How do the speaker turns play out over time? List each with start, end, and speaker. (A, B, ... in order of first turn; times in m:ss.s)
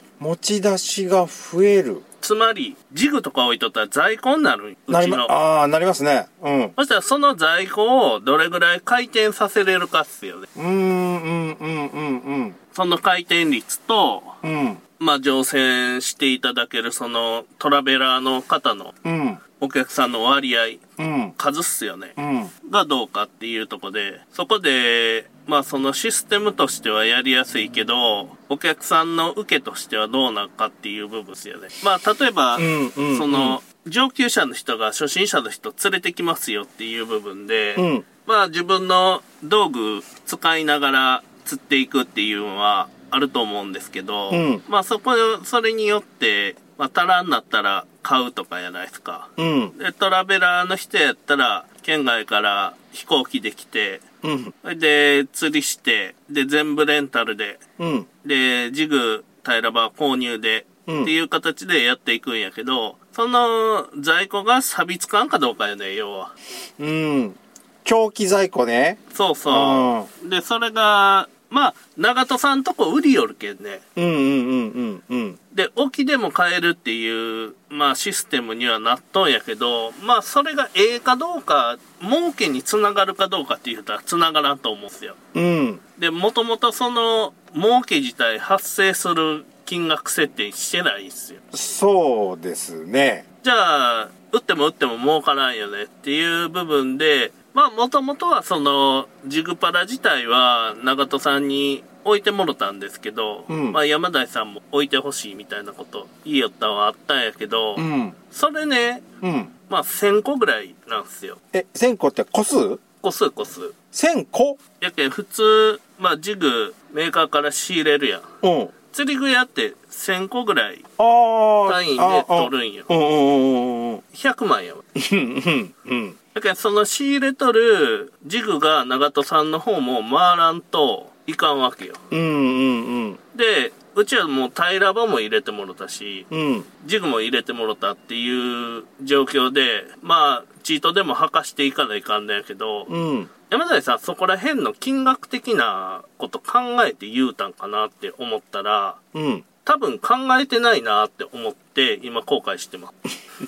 0:00.2-0:02.0 A
0:02.2-0:05.3 B
0:04.9-0:06.7 A
0:06.8-0:10.5 B
0:10.5-0:12.6 A
0:12.7-0:14.3 B
0:14.4-0:14.8 A
0:15.0-0:18.9 B
0:19.0-0:19.4 A
0:19.6-0:20.8 B
0:21.0-0:21.3 A
0:21.4-0:54.0 B
0:22.2-0:22.5 A
0:32.6-0:33.6 A
0:37.8-0:38.0 A
0:44.3-0:44.6 A
0:49.4-0:49.7 A
0:54.2-0:54.5 A
0:54.6-0:57.6 B
0:57.8-0:58.1 A
0:58.2-1:06.3 B
1:00.9-1:01.1 A
1:06.8-1:10.1 A
1:09.1-1:13.8 B
1:14.0-1:15.4 A
1:15.5-1:25.2 B
1:25.3-1:25.8 A
1:26.0-1:31.4 B
1:31.5-1:33.2 A
1:33.4-1:49.0 B
1:43.5-1:43.8 A
1:47.8-1:48.2 A
1:49.2-1:49.5 A
1:49.7-1:51.4 B
1:51.5-1:52.8 A
1:53.0-1:53.7 B
1:53.9-1:54.6 A
1:54.8-1:58.2 B
1:58.4-1:58.7 A
1:58.9-2:00.8 B
2:01.0-2:04.0 A
2:01.6-2:02.9 B
2:04.1-2:04.8 B
2:05.0-2:06.1 A
2:06.3-2:12.0 B
2:12.1-2:13.2 A
2:13.3-2:16.3 B
2:16.3-2:16.7 A
2:16.8-2:22.9 B
2:22.9-2:23.3 A
2:23.5-2:29.0 B
2:29.1-2:29.4 A
2:29.6-2:32.9 B